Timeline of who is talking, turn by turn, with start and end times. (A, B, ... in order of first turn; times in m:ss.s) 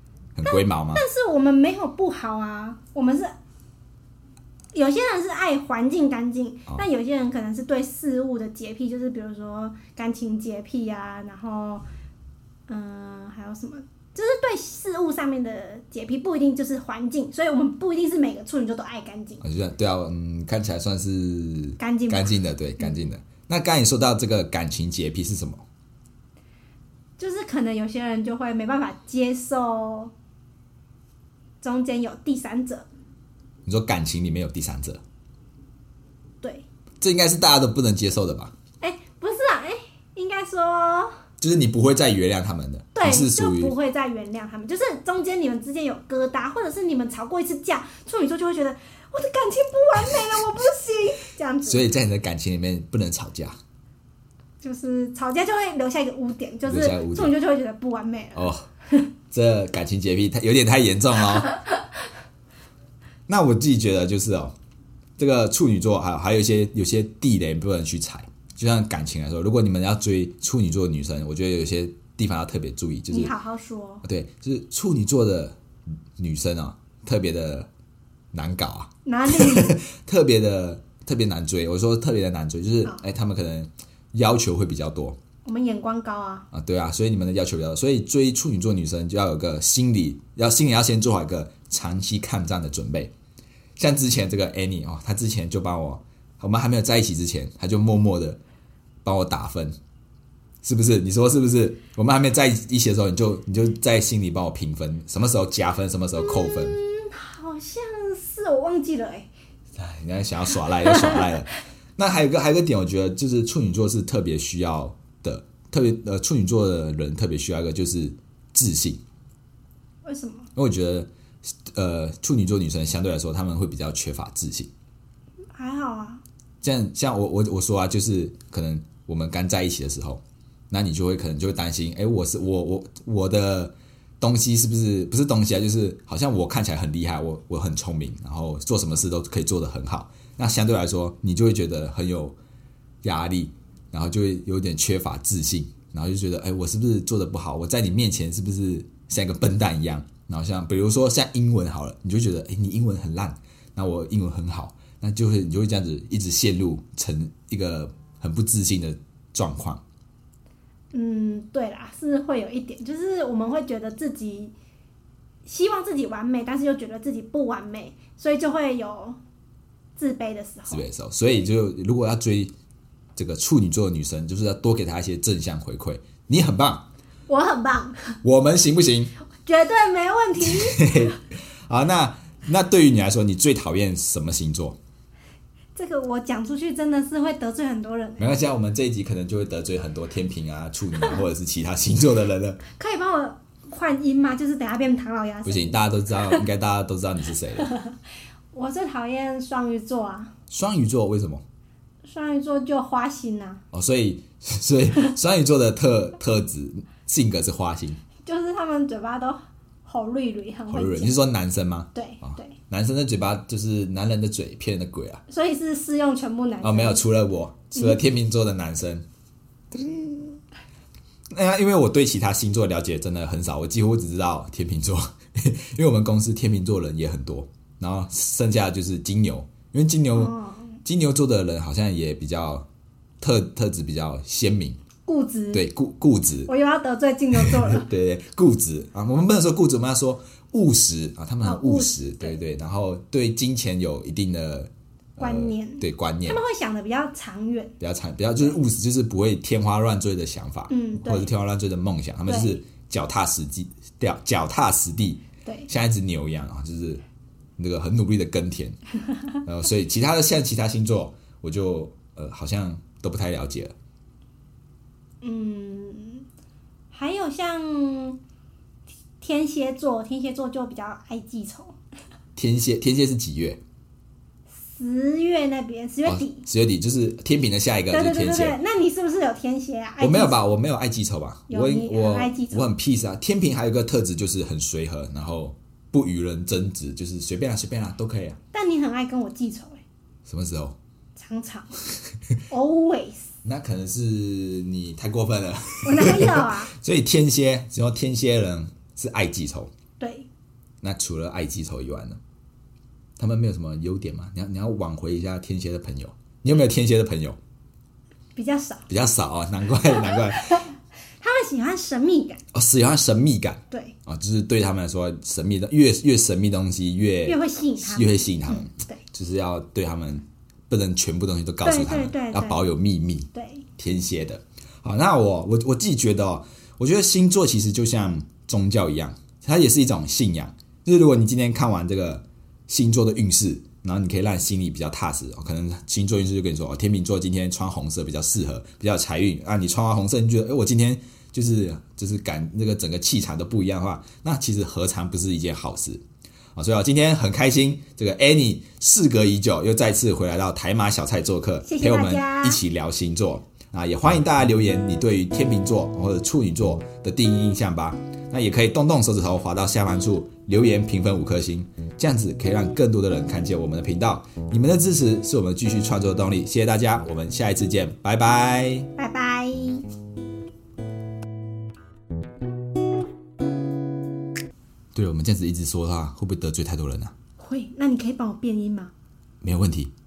0:00.4-0:01.0 A
0:00.4-0:03.3 B
0:04.7-0:11.8 B
0:12.7-0:19.4 B
0:19.4-0:25.6 A
0:21.8-0:22.9 B
0:27.2-0:30.1 B
0:31.6-0:32.8 B
0:33.6-0:35.0 A
0:37.0-0:38.5 A
0:38.8-0:41.1 B
0:41.4-0:43.7 A
0:42.9-0:51.9 B
0:51.6-0:53.6 A
0:54.6-0:59.1 B
0:56.6-0:57.3 A
0:58.3-0:58.7 A
0:59.3-1:01.6 A
1:03.3-1:04.5 A
1:05.2-1:13.3 A
1:13.1-1:14.0 B
1:14.0-1:15.6 A
1:16.2-1:17.7 A
1:18.3-1:25.2 A
1:19.0-1:19.8 B
1:25.4-1:26.5 B
1:26.5-1:33.1 A
1:33.8-1:38.4 A
1:39.0-1:39.7 A
1:40.6-1:46.8 A
1:46.2-1:49.3 B
1:49.7-1:59.0 A
2:00.0-2:00.5 B
2:00.5-2:01.1 A
2:01.7-2:04.7 A
2:05.5-2:06.2 B
2:06.6-2:22.4 A
2:23.0-2:39.8 A
2:40.9-2:44.5 B
2:45.4-2:49.2 B
2:50.0-2:50.8 B
2:50.7-2:52.5 A
2:53.2-2:56.9 A
2:57.3-2:58.2 B
2:58.2-2:59.1 A
2:59.4-3:01.1 B
3:00.4-3:04.8 A
3:05.8-3:08.3 B
3:08.2-3:12.6 A
3:12.8-3:16.4 B
3:15.4-3:17.7 A
3:17.6-3:18.0 B
3:18.5-3:20.3 B
3:20.5-3:21.4 A
3:22.0-3:23.6 B
3:23.7-3:28.0 A
3:28.2-3:31.2 B
3:30.7-3:35.2 A
3:31.9-3:32.6 B
3:35.3-3:37.0 B
3:36.6-3:39.0 A
3:39.7-3:40.4 A
3:41.3-3:52.6 A
3:50.1-3:50.7 B
3:53.2-3:54.8 A
3:55.0-3:55.6 B
3:55.5-3:56.5 A
3:56.5-3:57.9 B
3:57.4-4:06.4 A
4:01.4-4:02.4 B
4:05.2-4:07.7 B
4:07.8-4:17.0 A
4:10.7-4:11.3 B
4:12.3-4:12.5 B
4:17.6-4:18.8 A
4:19.4-4:23.7 A
4:25.2-4:26.2 B
4:26.9-4:28.2 B
4:29.2-4:31.7 B
4:32.4-4:33.6 A
4:34.6-4:36.4 B
4:36.0-4:38.6 A
4:37.9-4:40.4 B
4:40.0-4:48.4 A
4:41.5-4:42.7 B
4:48.5-4:49.8 B
4:50.2-4:50.8 A
4:51.2-4:51.7 B
4:52.5-4:53.3 B
4:53.4-4:59.7 A
4:55.8-4:56.7 B
5:00.0-5:00.3 B
5:00.8-5:02.2 A
5:03.2-5:07.4 A
5:08.3-5:08.9 B
5:08.9-5:10.7 A
5:10.0-5:10.7 B
5:11.2-5:12.4 B
5:12.5-5:46.0 A
5:17.2-5:19.0 B
5:21.6-5:22.6 B
5:23.3-5:23.6 B
5:46.6-6:08.9 A
5:51.6-5:52.6 B
6:09.0-6:09.9 B
6:14.9-6:17.1 A
6:17.4-6:18.9 B
6:19.4-6:19.9 A